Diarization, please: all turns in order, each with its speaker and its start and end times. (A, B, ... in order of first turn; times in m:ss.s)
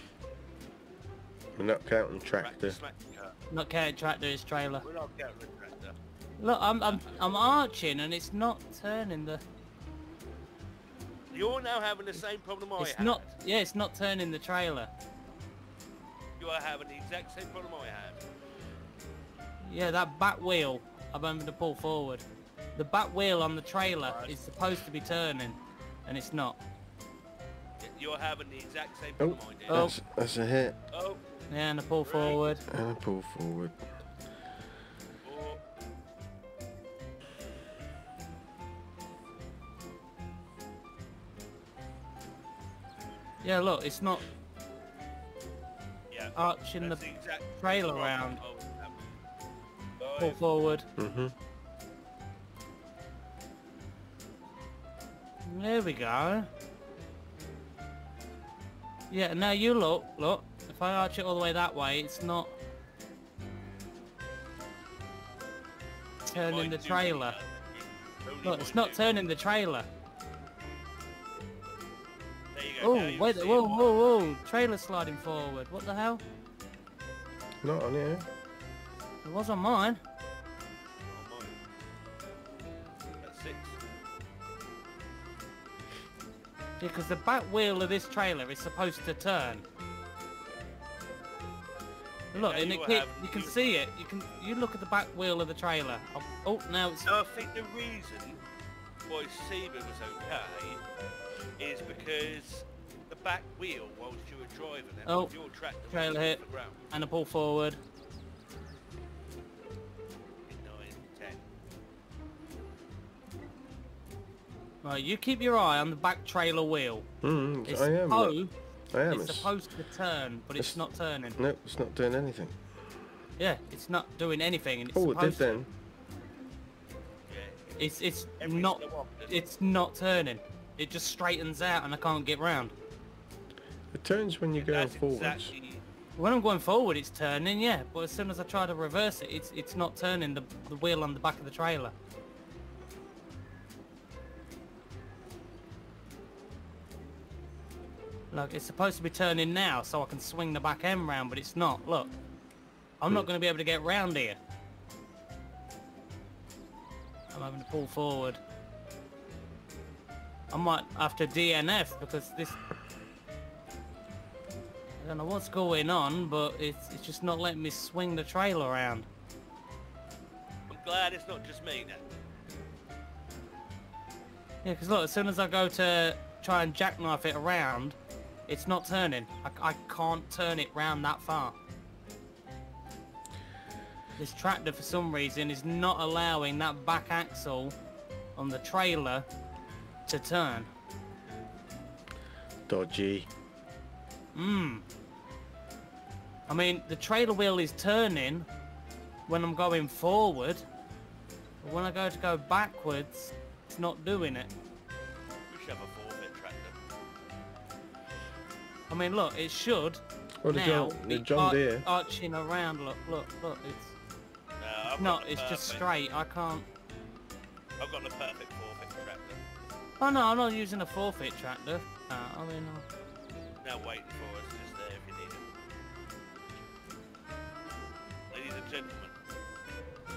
0:01.6-0:02.8 A
0:02.4-0:03.4 B
0:03.5-0:04.9 C
0:04.8-0:06.0 B
0:06.4-0:09.4 C
0:06.9-0:07.2 B
0:11.3-0:13.3 B
0:12.8-0:14.9 C
0:16.4-0:18.2 B
0:19.6-0:22.2 C
0:22.8-0:26.6 C
0:24.0-0:24.4 B
0:27.8-0:29.9 B
0:29.2-0:30.8 A
0:30.9-0:31.2 B
0:31.5-0:32.6 C
0:32.1-0:32.5 B
0:32.7-0:33.8 A
0:35.2-0:35.6 B
0:43.4-0:44.2 C
0:46.1-0:49.1 B
0:46.4-0:47.0 C
0:47.6-0:48.4 C
0:50.0-0:50.4 B
0:50.2-0:50.9 C
0:51.0-0:51.3 A
0:55.4-0:56.5 C
0:59.1-1:02.6 C
1:06.3-1:07.4 C
1:06.4-1:09.2 B
1:08.4-1:09.9 C
1:12.5-1:14.4 B
1:12.8-1:16.2 C
1:17.6-1:18.3 A
1:19.2-1:20.0 C
1:21.1-1:21.6 B
1:23.2-1:23.8 B
1:26.8-1:29.6 C
1:32.3-1:33.6 B
1:32.3-1:37.1 C
1:37.1-1:38.4 B
1:39.1-1:40.8 B
1:41.6-1:46.8 B
1:45.1-1:45.3 C
1:45.9-1:46.4 C
1:46.9-1:47.8 C
1:50.5-1:51.4 B
1:54.8-1:57.1 C
1:57.2-1:58.4 A
1:57.7-1:58.5 C
1:58.9-1:59.5 A
1:59.1-2:01.4 C
2:01.4-2:02.6 A
2:03.4-2:05.6 C
2:04.9-2:05.7 A
2:07.3-2:09.4 B
2:07.8-2:12.7 C
2:13.9-2:15.5 A
2:14.6-2:15.8 B
2:16.2-2:21.9 C
2:28.3-2:32.1 C
2:33.0-2:34.4 C
2:37.3-2:38.4 C
2:40.5-2:42.6 C
2:45.0-2:49.1 C
2:50.7-2:52.0 B
2:54.6-3:01.6 C
3:04.2-3:07.8 C
3:08.4-3:09.3 C
3:10.1-3:10.7 C
3:12.7-3:13.3 A
3:14.3-3:14.8 C
3:16.5-3:18.5 C
3:19.3-3:20.6 C
3:21.6-3:24.5 C
3:25.5-3:26.8 B
3:28.9-3:34.0 C
3:30.4-3:31.8 A
3:34.6-3:35.8 B
3:35.0-3:36.7 C
3:37.8-3:39.4 B
3:40.0-3:42.8 C
3:43.6-3:45.4 B
3:48.3-3:49.2 B